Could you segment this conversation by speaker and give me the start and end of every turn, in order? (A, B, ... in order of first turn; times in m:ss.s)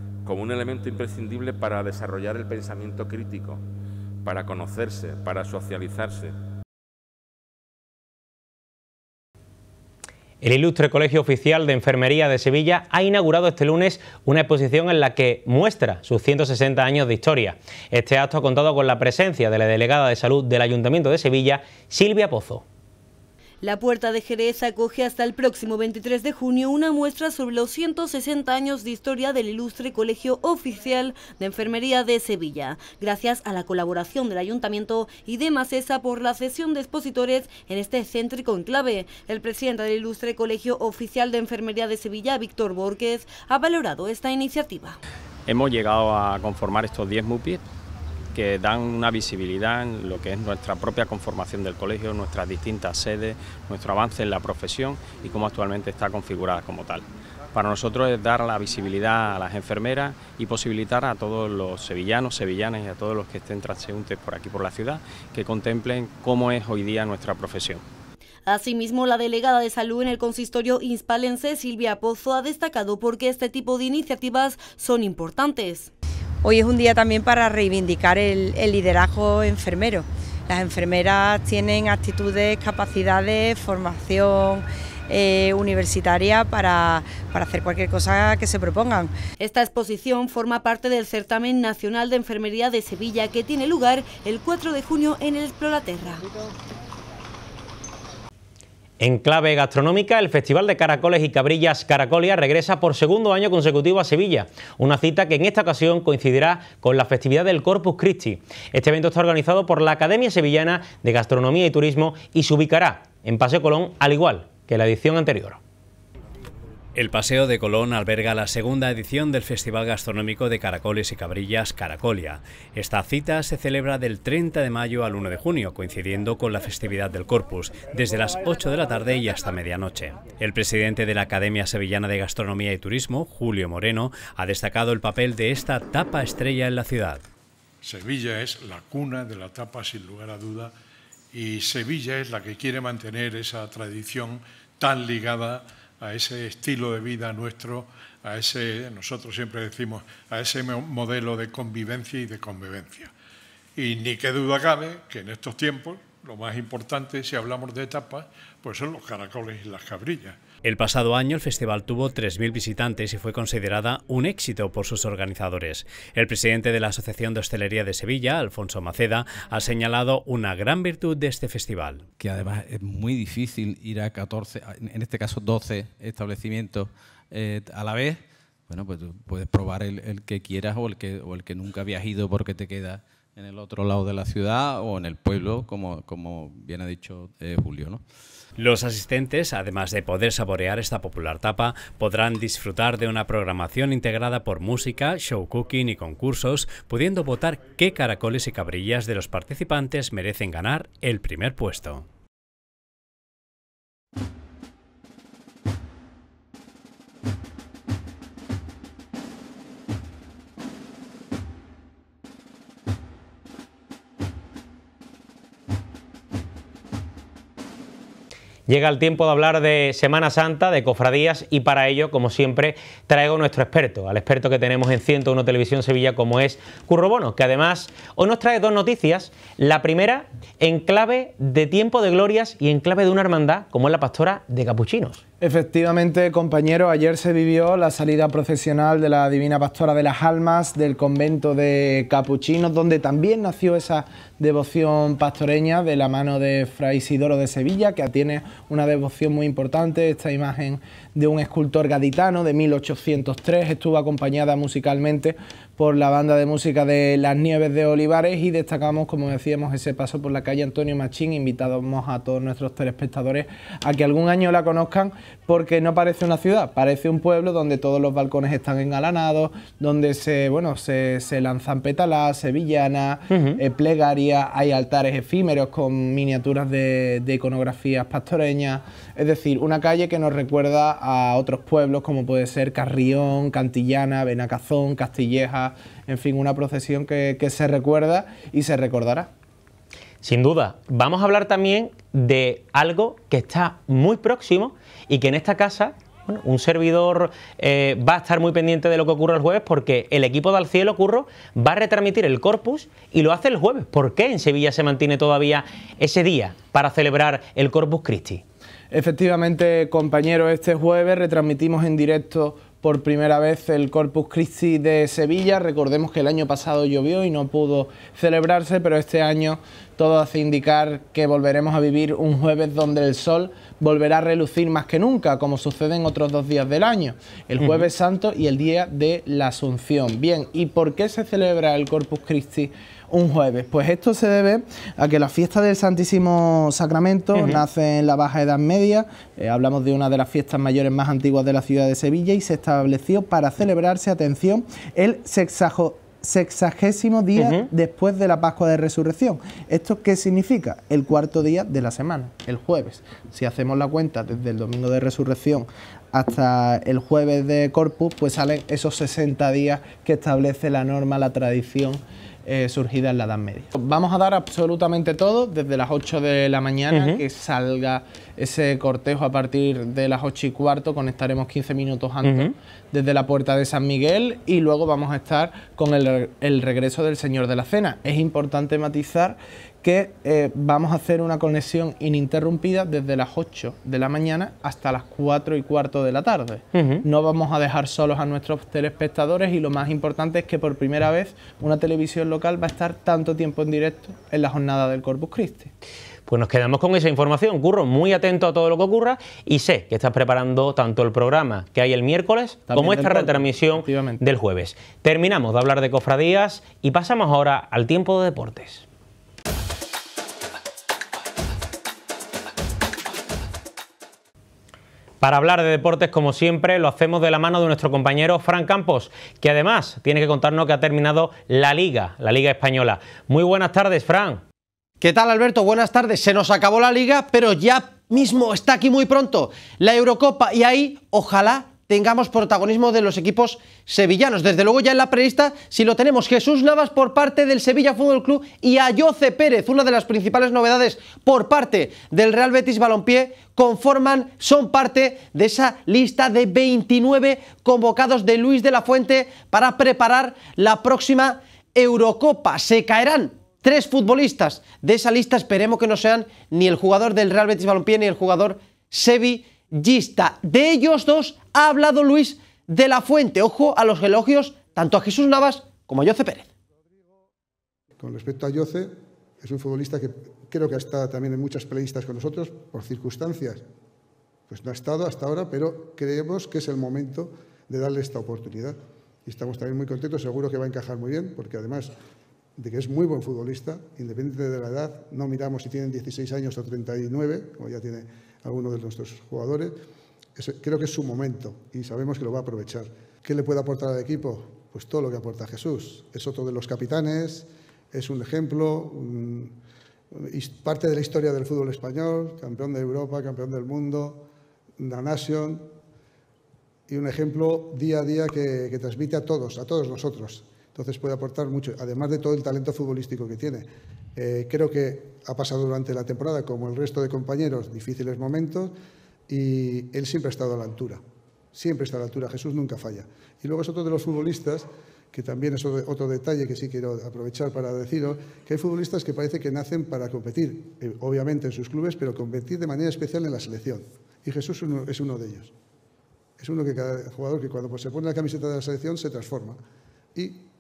0:00.2-0:03.6 A
0:04.2-0:06.4 A
0:10.4-0:22.6 B
0:23.6-0:45.0 C
0:45.5-0:47.6 D
0:48.3-1:07.8 D
1:08.5-1:15.9 C
1:16.4-1:29.1 E
1:29.4-1:36.3 C
1:39.0-1:55.6 B
1:57.0-2:17.2 F
2:17.8-2:20.7 G
2:21.3-2:33.1 G
2:33.8-2:40.4 G
2:40.6-2:52.0 F
2:52.2-3:08.0 H
3:08.6-3:22.1 F
3:38.7-3:55.2 B
3:55.4-4:49.3 I
4:33.3-4:33.6 B
4:50.2-5:08.4 B
5:08.9-6:35.7 I
5:27.6-5:27.9 B
5:37.4-5:37.6 B
5:47.4-5:47.7 B
6:06.9-6:07.2 B
6:12.2-6:12.5 B
6:26.7-6:27.0 B
6:36.3-6:48.8 B
6:42.7-6:44.2 I
6:55.2-7:04.4 B
7:05.0-7:46.5 J
7:48.0-7:53.6 K
7:54.5-8:01.9 K
8:02.6-8:09.8 K
8:10.4-8:19.6 K
8:20.1-8:24.3 K
8:24.8-8:25.7 K
8:26.9-8:38.7 K
8:39.3-8:41.0 K
8:41.5-8:55.5 K
8:56.4-8:59.6 K
9:00.1-9:00.4 K